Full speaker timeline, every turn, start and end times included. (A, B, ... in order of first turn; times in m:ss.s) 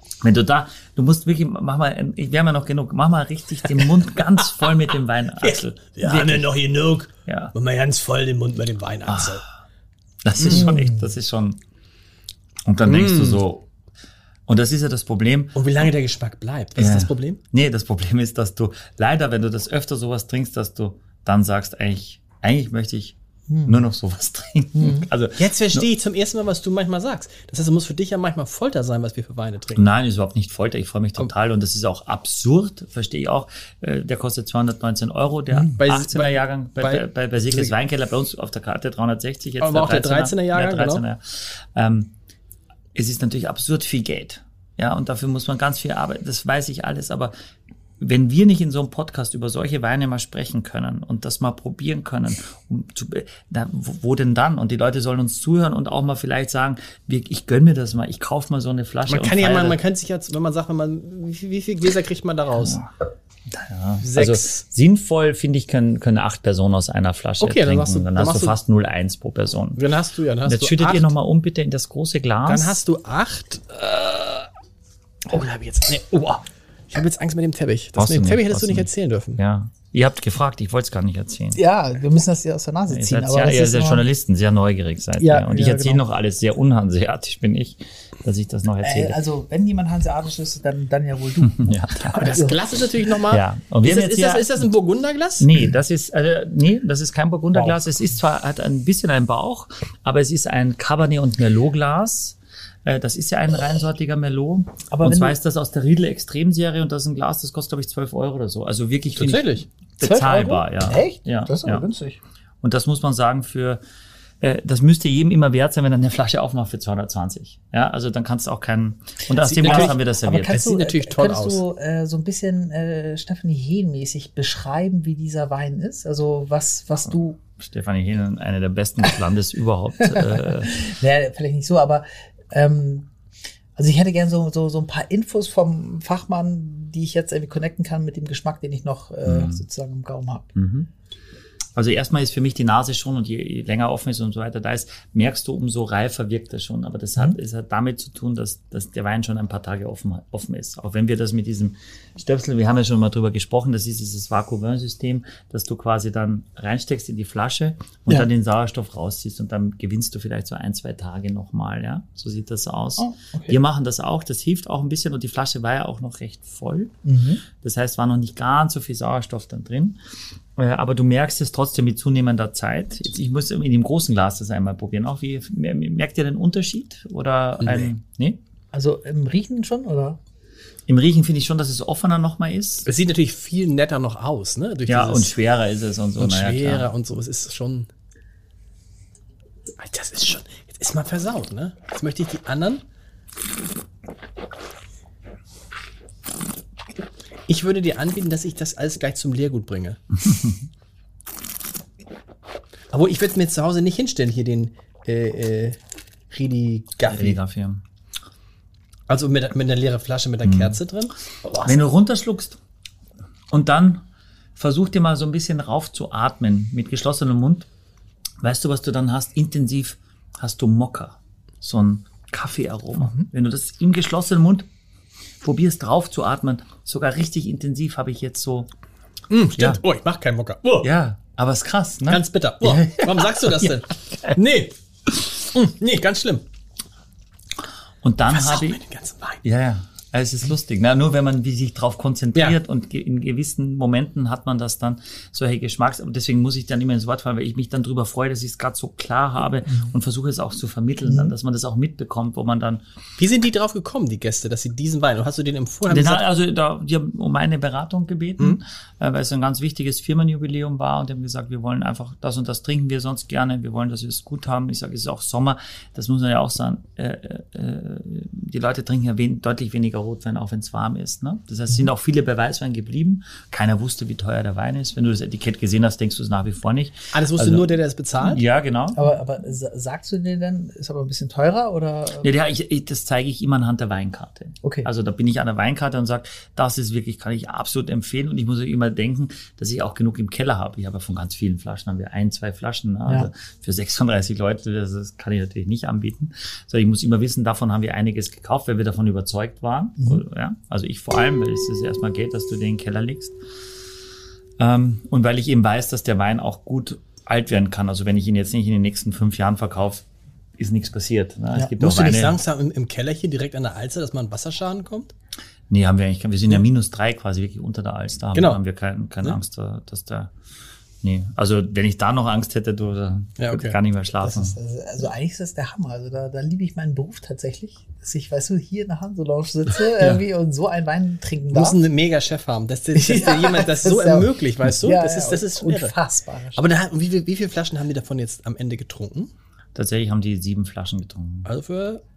0:00.2-0:06.5 A
0:04.4-0:04.7 B
0:05.4-0:09.4 B
0:07.2-0:07.5 A
0:09.1-0:09.4 A
0:10.2-0:11.6 A
0:10.4-0:10.7 B
0:10.5-0:11.0 C
0:12.6-0:13.6 A
0:12.8-0:13.4 B
0:14.5-0:15.6 A
0:15.5-0:17.4 B
0:16.8-0:25.9 A
0:23.5-0:23.8 C
0:24.8-0:25.0 C
0:25.4-0:29.9 B
0:29.7-0:42.1 A
0:35.7-0:37.7 B
0:39.6-0:41.0 B
0:42.9-0:47.3 A
0:48.0-0:59.8 A
0:59.1-1:02.8 B
1:02.6-1:02.9 A
1:03.5-1:09.8 A
1:04.0-1:04.6 B
1:07.4-1:08.6 B
1:09.8-1:11.1 B
1:10.4-1:12.8 A
1:12.4-1:14.5 B
1:15.2-1:19.4 B
1:18.0-1:21.6 A
1:21.5-1:24.0 C
1:22.9-1:29.2 A
1:25.2-1:26.0 C
1:28.8-1:32.6 C
1:31.4-1:32.2 A
1:32.1-1:35.5 B
1:33.3-1:34.6 A
1:35.4-1:51.8 A
1:37.5-1:37.8 C
1:44.9-1:45.3 C
1:49.2-1:49.6 B
1:50.0-1:52.2 C
1:52.6-1:53.8 A
1:54.4-2:00.6 A
1:59.4-2:01.6 B
1:59.6-2:07.4 C
2:07.4-2:10.8 A
2:10.1-2:13.1 C
2:13.8-2:20.5 C
2:19.2-2:19.6 A
2:20.6-2:20.9 A
2:21.8-2:47.0 A
2:43.0-2:43.6 C
2:47.0-2:47.4 C
2:47.5-2:50.0 A
2:50.6-2:58.4 A
2:57.6-2:57.9 B
2:58.7-3:00.2 C
3:00.9-3:02.9 A
3:02.8-3:05.3 B
3:04.9-3:06.9 A
3:06.2-3:07.9 B
3:09.8-3:12.8 B
3:17.5-3:20.0 B
3:22.9-3:25.8 B
3:26.3-3:27.4 B
3:27.0-3:27.8 A
3:29.1-3:31.8 B
3:30.4-3:30.8 A
3:31.6-3:32.6 A
3:33.5-3:34.0 A
3:34.6-3:37.6 A
3:38.4-3:44.7 A
3:43.0-3:43.3 C
3:45.4-3:48.7 A
3:49.3-3:50.9 B
3:50.8-3:54.3 A
3:52.1-3:56.4 B
3:58.0-3:58.8 A
3:58.3-3:59.4 B
3:59.4-4:12.8 A
4:11.1-4:11.3 C
4:13.2-4:16.2 B
4:15.9-4:39.0 A
4:37.1-4:38.4 B
4:38.9-4:42.3 C
4:42.2-5:03.3 A
4:44.6-4:44.9 C
5:04.6-5:10.0 A
5:10.6-5:12.4 A
5:11.7-5:15.1 B
5:15.7-5:20.3 A
5:18.3-5:18.6 B
5:21.0-5:24.6 A
5:23.4-5:23.8 B
5:24.2-5:31.8 C
5:31.5-5:35.9 B
5:32.9-5:36.6 C
5:36.6-5:39.3 B
5:39.7-5:41.5 A
5:41.4-5:42.0 B